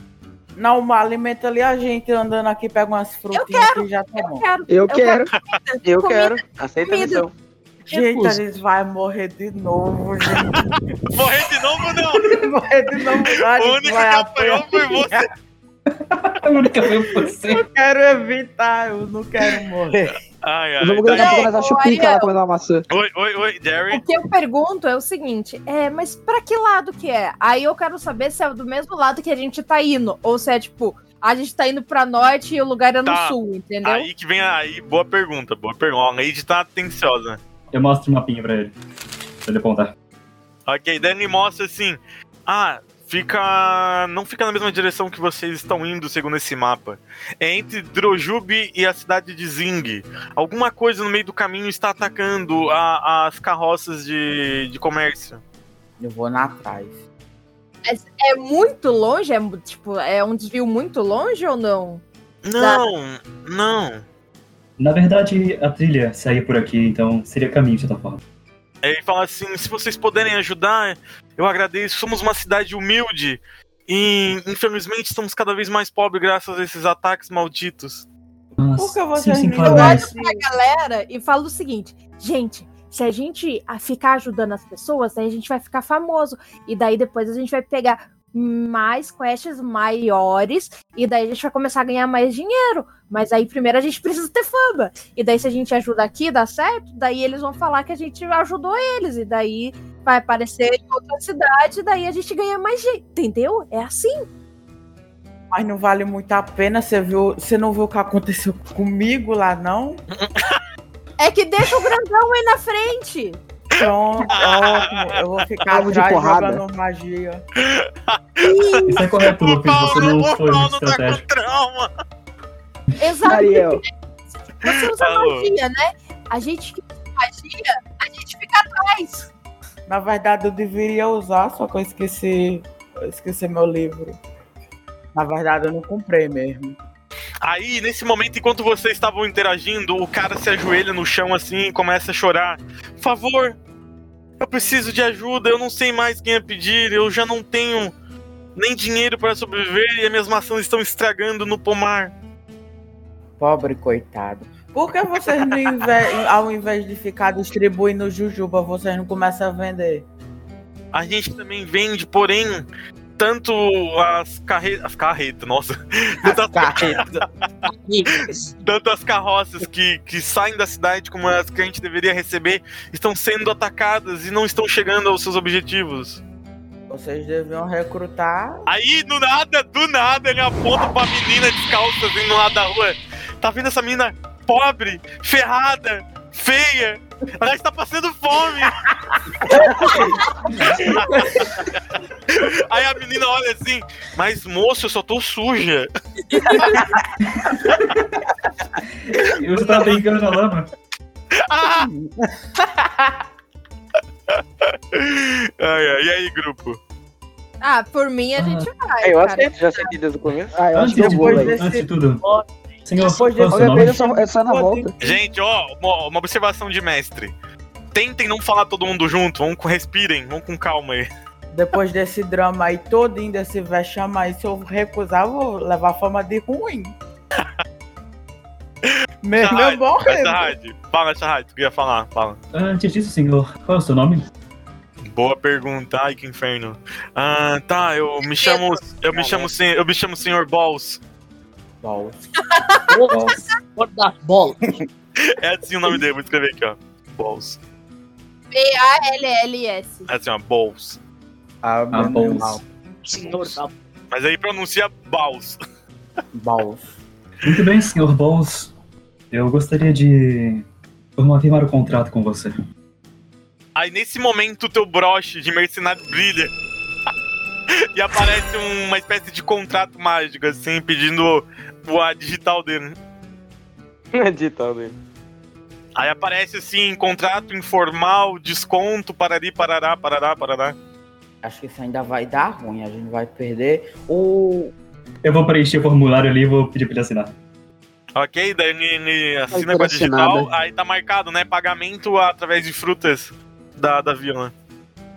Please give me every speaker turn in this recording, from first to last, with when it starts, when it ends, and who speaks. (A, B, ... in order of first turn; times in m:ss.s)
0:00.6-0:04.4 A
0:03.3-0:07.3 B
0:04.7-0:05.3 C
0:05.8-0:07.3 D
0:07.9-0:10.8 A
0:07.9-0:08.4 E
0:11.1-0:12.3 F
0:12.2-0:15.2 A
0:13.5-0:15.3 F
0:15.9-0:17.7 G
0:17.4-0:20.2 A
0:20.4-0:21.5 F
0:20.8-0:22.8 C
0:21.1-0:22.3 B
0:22.9-0:24.0 F
0:23.9-0:34.1 B
0:33.1-0:37.4 F
0:37.7-0:38.7 G
0:39.4-0:39.9 G
0:40.7-0:55.4 F
0:56.0-0:57.0 A
0:57.8-1:02.0 B
1:02.4-1:04.0 F
1:02.6-1:02.8 B
1:04.8-1:08.2 G
1:08.8-1:18.1 F
1:18.6-1:20.1 G
1:18.8-1:20.4 A
1:19.6-1:44.2 B
1:45.5-1:50.0 A
1:50.1-1:50.6 F
1:51.2-1:53.4 B
1:53.7-1:57.4 A
1:54.3-1:54.9 F
1:55.7-1:56.6 C
1:57.6-2:01.9 F
1:58.4-1:59.0 B
1:58.9-2:01.2 G
2:03.0-2:03.9 B
2:03.2-2:03.8 C
2:04.5-2:09.3 B
2:04.6-2:05.5 F
2:09.9-2:14.2 A
2:15.2-2:16.8 A
2:17.4-2:23.6 F
2:24.4-2:27.9 F
2:28.6-2:32.1 F
2:33.4-2:40.1 A
2:40.9-2:42.6 F
2:43.2-2:47.2 F
2:46.2-2:47.2 A
2:47.8-2:48.1 E
2:48.6-2:56.2 F
2:56.9-2:58.6 A
2:58.7-3:08.8 F
3:09.5-3:10.1 A
3:10.7-3:11.7 F
3:12.3-3:15.9 F
3:16.5-3:16.8 F
3:16.6-3:17.0 A
3:17.2-3:18.0 G
3:19.0-3:20.7 G
3:21.4-3:21.9 F
3:21.6-3:23.1 A
3:24.3-3:26.8 F
3:27.6-3:29.9 B
3:28.4-3:28.7 G
3:29.0-3:30.6 D
3:30.5-3:31.5 C
3:30.7-3:32.2 G
3:30.9-3:31.9 A
3:32.2-3:32.5 E
3:32.9-3:34.0 G
3:33.0-3:35.2 A
3:33.5-3:34.9 C
3:35.0-3:37.3 F
3:37.9-3:41.1 F
3:41.5-3:47.0 A
3:48.9-3:52.4 F
3:49.2-3:50.5 A
3:52.5-3:54.3 G
3:55.0-4:01.0 F
3:58.4-3:58.7 B
3:59.2-3:59.5 D
4:01.8-4:02.3 A
4:02.4-4:02.9 B
4:02.9-4:04.6 E
4:03.1-4:03.4 G
4:05.2-4:07.6 F
4:08.5-4:10.1 B
4:10.1-4:11.0 F
4:11.6-4:12.6 A
4:11.9-4:12.6 G
4:13.0-4:13.7 E
4:14.1-4:15.6 F
4:16.3-4:17.0 A
4:17.4-4:18.7 G
4:19.3-4:20.6 G
4:21.2-4:22.5 G
4:23.8-4:26.5 F
4:27.9-4:33.0 F
4:34.1-4:34.9 D
4:36.0-4:40.8 F
4:41.4-4:44.7 A
4:45.2-4:47.3 G
4:48.2-4:54.5 F
4:49.5-4:50.5 C